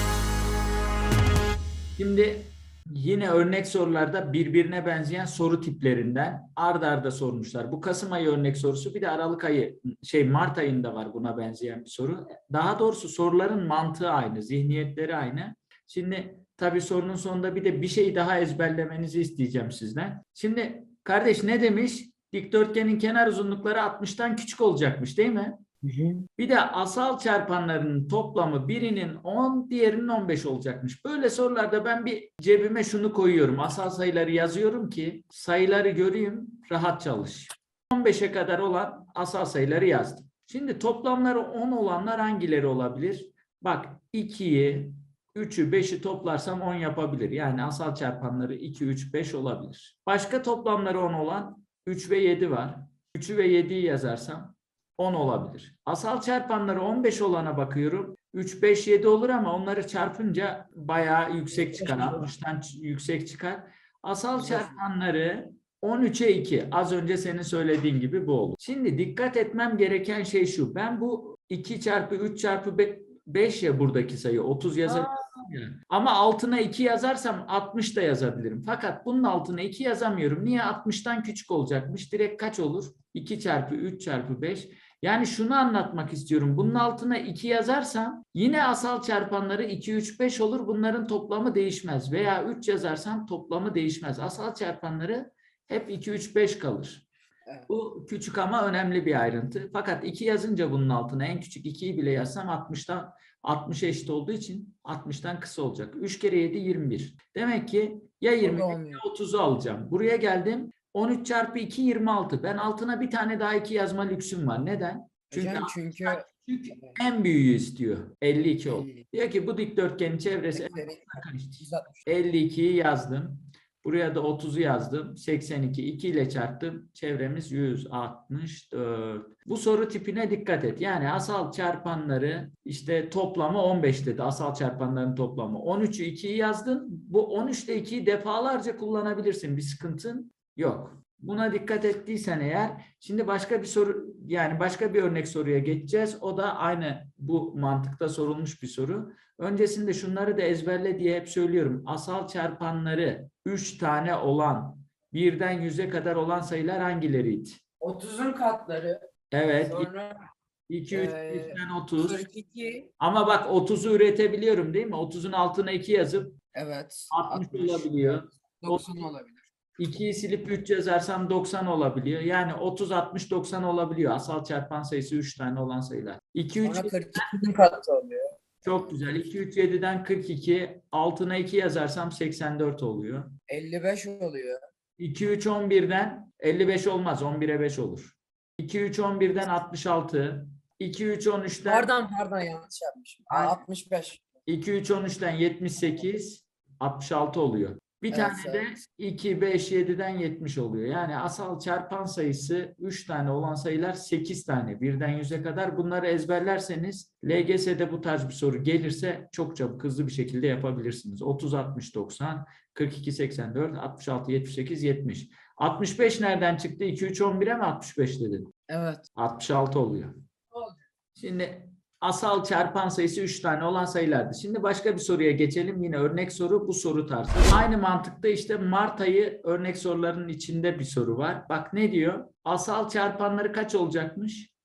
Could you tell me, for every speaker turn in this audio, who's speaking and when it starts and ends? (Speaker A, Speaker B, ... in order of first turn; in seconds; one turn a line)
Speaker A: 2.0-25.7
Speaker B: 25.8-26.2
Speaker A: 26.4-97.0
Speaker B: 61.5-62.2
Speaker B: 64.4-64.7
Speaker B: 74.9-75.1
Speaker A: 97.7-157.6
Speaker B: 108.4-109.0
Speaker B: 115.3-116.2
Speaker B: 118.6-119.0
Speaker B: 120.5-122.1
Speaker B: 157.8-159.0
Speaker A: 159.3-159.9
Speaker B: 159.6-160.2
Speaker A: 160.7-162.2
Speaker B: 160.9-162.9
Speaker A: 163.0-166.3
Speaker B: 166.5-169.4
Speaker A: 167.1-169.0
Speaker A: 169.8-177.3
Speaker B: 176.6-178.3
Speaker A: 178.6-183.3
Speaker B: 183.5-184.6
Speaker A: 185.0-191.9
Speaker B: 191.6-194.2
Speaker A: 194.5-218.5
Speaker B: 198.1-198.7
Speaker B: 218.7-219.0
Speaker A: 219.2-220.2
Speaker A: 221.2-234.5